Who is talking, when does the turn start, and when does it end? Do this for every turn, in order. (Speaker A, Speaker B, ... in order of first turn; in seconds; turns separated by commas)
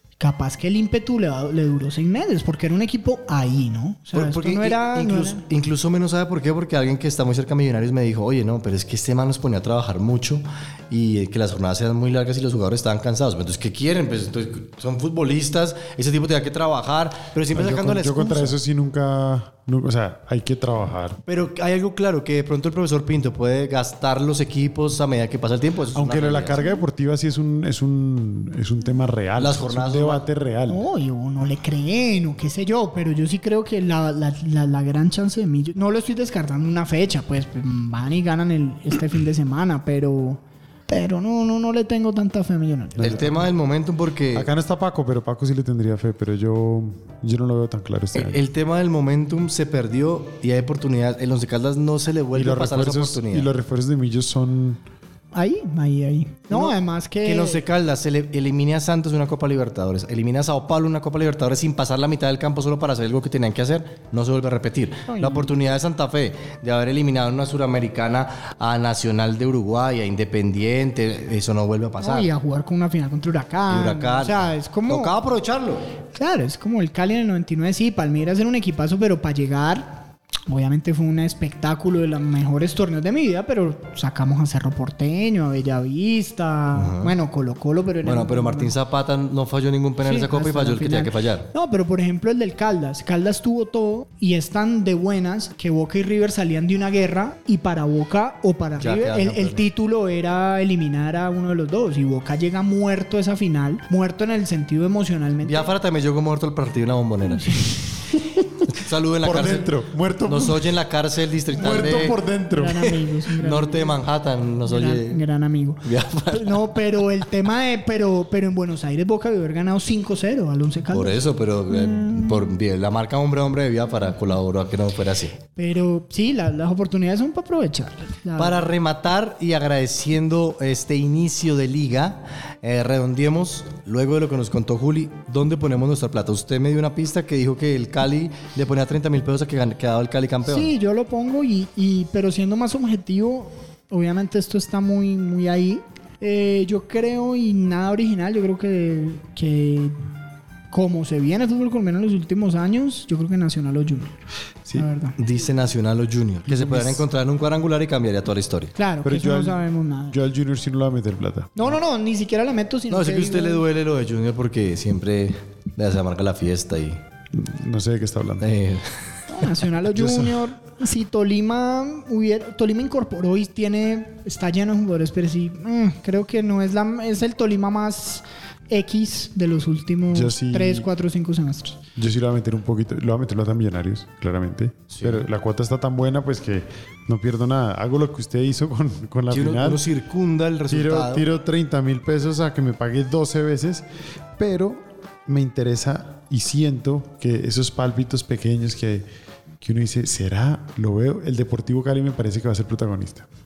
Speaker A: 0.2-5.4, Speaker B: 4.1-18.6, Speaker C: 17.5-21.2, Speaker B: 21.3-26.6, Speaker C: 25.9-30.9, Speaker B: 29.4-30.2, Speaker A: 30.7-43.4, Speaker B: 43.0-44.5, Speaker C: 43.0-43.4, Speaker C: 44.3-48.4, Speaker B: 48.1-53.5, Speaker C: 52.3-54.8, Speaker A: 55.3-57.6, Speaker B: 56.5-72.3, Speaker A: 65.1-65.5, Speaker A: 72.0-75.1, Speaker B: 73.7-75.8, Speaker A: 76.1-88.7, Speaker B: 86.7-87.1, Speaker B: 88.0-91.5, Speaker A: 90.0-105.7, Speaker B: 98.8-99.6, Speaker B: 105.4-107.8, Speaker A: 107.3-107.8, Speaker B: 108.7-109.7, Speaker C: 109.2-110.8, Speaker B: 110.2-112.2, Speaker C: 111.6-112.9, Speaker A: 111.6-114.0, Speaker B: 112.7-115.2, Speaker A: 114.7-122.5, Speaker B: 115.8-117.0, Speaker B: 120.9-125.4, Speaker A: 125.5-128.7, Speaker B: 128.4-140.7, Speaker A: 140.4-150.0, Speaker A: 150.7-154.2, Speaker A: 154.7-155.2, Speaker B: 155.2-158.7, Speaker C: 156.5-157.0, Speaker A: 158.8-160.2, Speaker C: 159.0-161.6, Speaker A: 161.6-163.6, Speaker B: 162.9-167.0, Speaker C: 167.3-168.5, Speaker B: 168.4-169.1, Speaker A: 169.3-181.8, Speaker C: 169.9-170.4, Speaker C: 180.1-180.9, Speaker C: 181.9-189.8, Speaker B: 184.9-185.2, Speaker B: 189.3-191.2, Speaker C: 190.7-193.8, Speaker C: 194.4-199.1, Speaker C: 199.6-203.2